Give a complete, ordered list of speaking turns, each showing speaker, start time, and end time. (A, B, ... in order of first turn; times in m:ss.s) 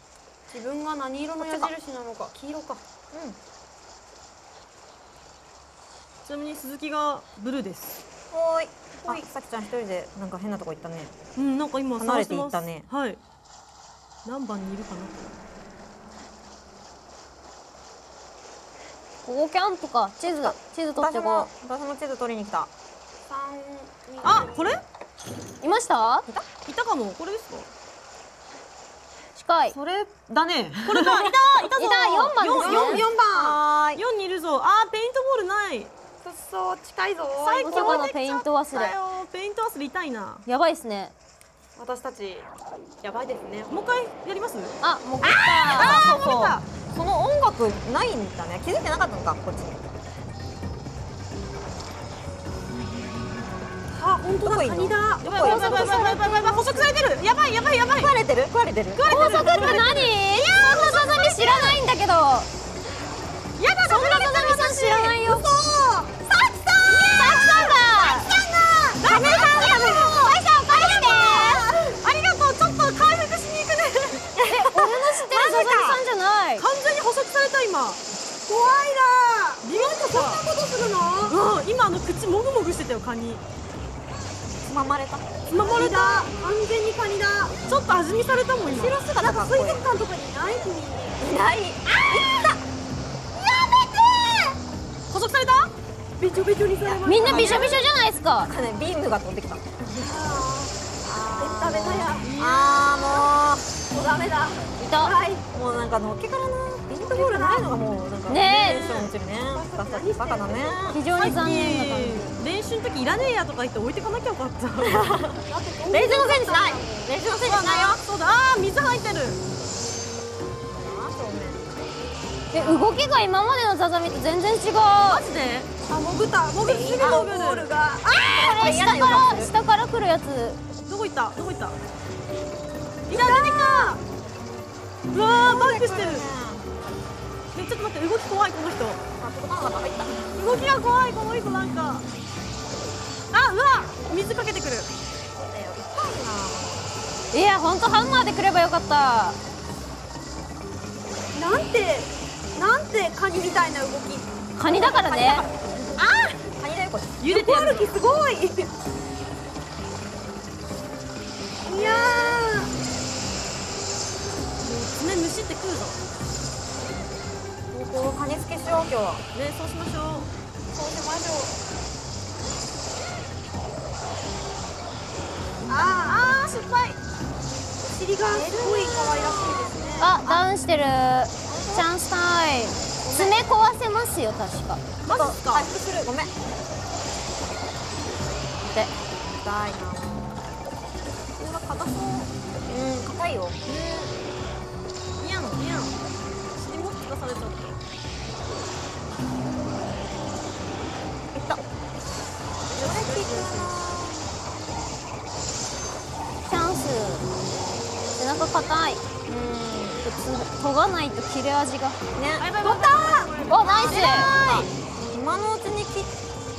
0:00.5-0:02.8 A
0:01.4-0:01.7 B
0:03.1-0:03.4 B
0:06.2-0:08.0 C
0:08.3-0:11.1 B
0:11.4-0:13.2 C
0:12.0-0:12.8 B
0:14.2-0:15.3 C
0:19.2-0:21.5 D
0:20.2-0:22.7 B
0:23.3-0:24.8 A
0:24.2-0:24.8 C
0:25.6-0:26.2 D
0:26.6-0:27.7 C
0:29.3-0:29.8 D
0:29.7-0:31.4 B
0:30.8-0:33.0 C
0:31.8-0:33.0 D
0:32.5-0:33.6 A
0:33.1-0:34.0 B
0:33.9-0:35.9 C
0:36.2-0:38.1 A
0:37.4-0:40.4 C
0:37.6-0:39.0 D
0:40.4-0:41.1 D
0:41.8-0:42.5 A
0:43.0-0:44.0 A
0:43.7-0:46.6 C
0:44.8-0:46.1 D
0:45.3-0:49.8 B
0:53.9-0:56.9 A
0:54.4-0:55.9 B
0:55.2-0:58.1 C
0:57.9-0:59.9 B
0:58.9-1:00.1 C
0:59.1-1:02.5 D
1:00.6-1:01.7 A
1:03.6-1:05.1 C
1:03.9-1:05.4 D
1:04.7-1:12.0 A
1:07.1-1:08.3 D
1:07.2-1:07.7 B
1:09.0-1:09.4 C
1:09.0-1:10.4 B
1:09.0-1:11.6 D
1:12.0-1:14.3 C
1:14.4-1:16.0 B
1:14.4-1:16.6 D
1:16.6-1:18.0 C
1:18.5-1:21.4 A
1:19.6-1:20.4 C
1:21.3-1:23.4 C
1:24.6-1:25.2 B
1:25.5-1:26.3 C
1:25.5-1:27.5 A
1:27.7-1:29.0 C
1:28.6-1:31.2 A
1:29.1-1:29.8 B
1:31.2-1:32.6 B
1:33.4-1:34.5 B
1:35.1-1:35.7 C
1:36.2-1:37.8 A
1:36.8-1:37.9 B
1:37.0-1:38.5 D
1:37.3-1:37.8 C
1:38.4-1:40.1 B
1:40.0-1:40.7 A
1:41.0-1:43.7 B
1:41.4-1:42.3 A
1:42.2-1:43.2 C
1:43.9-1:45.4 A
1:44.8-1:45.1 D
1:45.5-1:51.0 B
1:46.9-1:47.7 A
1:48.3-1:49.1 D
1:48.4-1:49.1 C
1:49.5-1:51.0 A
1:50.9-1:52.3 D
1:51.1-1:55.0 C
1:54.8-1:58.0 B
1:55.5-1:57.1 A
1:57.4-1:59.4 C
2:00.7-2:01.9 B
2:02.5-2:05.2 D
2:02.5-2:02.9 B
2:05.0-2:05.7 C
2:05.9-2:08.4 A
2:06.5-2:07.7 C
2:07.0-2:07.3 B
2:08.1-2:10.6 D
2:08.3-2:09.5 B
2:10.8-2:11.8 C
2:13.1-2:14.0 C
2:13.1-2:14.0 A
2:15.1-2:16.3 C
2:15.4-2:16.6 B
2:17.5-2:19.0 C
2:19.2-2:20.2 B
2:20.3-2:22.0 C
2:23.3-2:24.9 C
2:25.3-2:26.9 B
2:27.3-2:29.4 D
2:31.3-2:34.3 A
2:34.6-2:35.4 D
2:34.7-2:37.1 B
2:37.2-2:37.9 C
2:37.2-2:38.7 A
2:41.6-2:42.7 A
2:41.7-2:42.4 B
2:44.6-2:46.0 C
2:47.7-2:49.2 B
2:49.3-2:50.3 C
2:50.7-2:51.5 A
2:55.7-2:56.5 A
2:55.8-2:57.0 C
2:57.8-3:00.4 A
2:58.5-2:59.6 B
3:00.0-3:04.8 D
3:03.1-3:03.4 A
3:05.0-3:05.7 C
3:05.1-3:06.3 B
3:09.3-3:10.4 B
3:11.4-3:12.3 C
3:12.6-3:13.6 B
3:13.6-3:14.2 C
3:15.2-3:16.0 C
3:16.5-3:17.8 C
3:21.3-3:21.6 B
3:22.7-3:23.8 C
3:22.8-3:24.3 B
3:26.4-3:27.2 D
3:28.2-3:29.0 D
3:29.2-3:30.0 B
3:30.0-3:32.0 D
3:32.1-3:32.5 B
3:32.4-3:34.7 C
3:32.6-3:34.5 A
3:33.5-3:34.3 D
3:33.9-3:36.1 B